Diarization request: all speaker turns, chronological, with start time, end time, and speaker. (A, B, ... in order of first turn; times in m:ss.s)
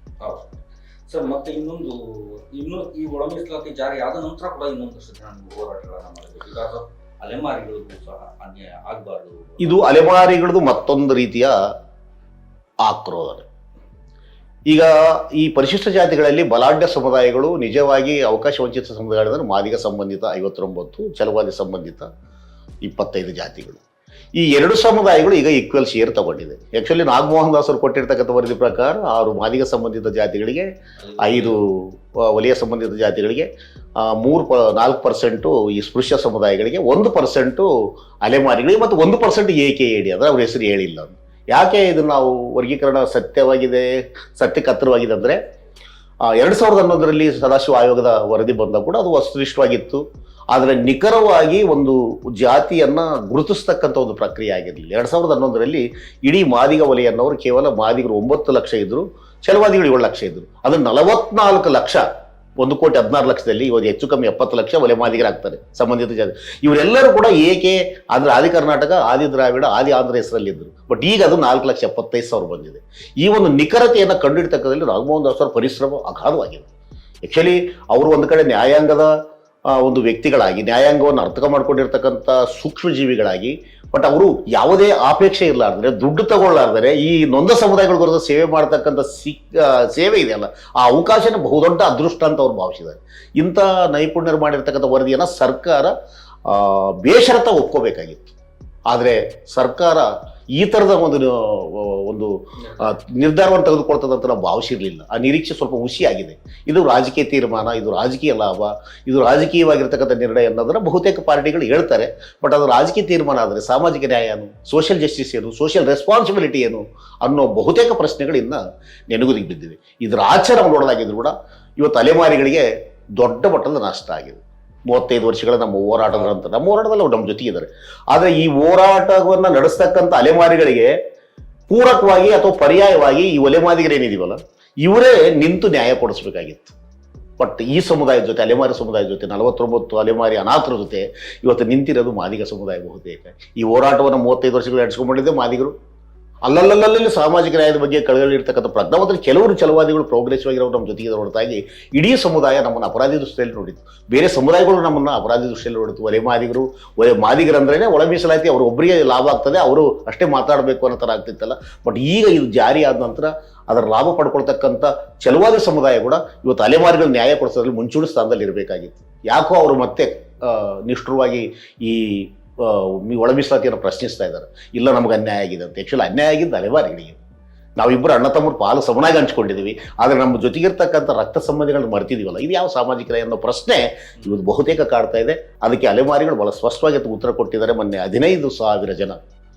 0:00.2-0:00.5 A
0:01.1-0:09.8 A
0:09.6-0:11.5 B
0:12.8-0:13.5 B
0:14.7-0:22.1 B
0:22.8-0:23.8 B
0:24.4-0:30.7 B
0:31.0-0:31.6 A
0:31.2-0:33.5 B
0:34.0-0:37.7 B
0:38.2-0:45.4 B
0:46.3-1:02.0 B
1:02.6-1:16.7 B
1:17.2-1:19.1 B
1:19.7-1:35.9 B
1:36.5-1:38.3 B
1:38.9-2:02.7 B
1:42.6-1:42.9 A
2:03.2-2:10.9 B
2:06.1-2:06.4 A
2:11.7-2:16.7 B
2:17.4-2:25.7 B
2:26.4-2:57.2 B
2:57.8-3:09.2 B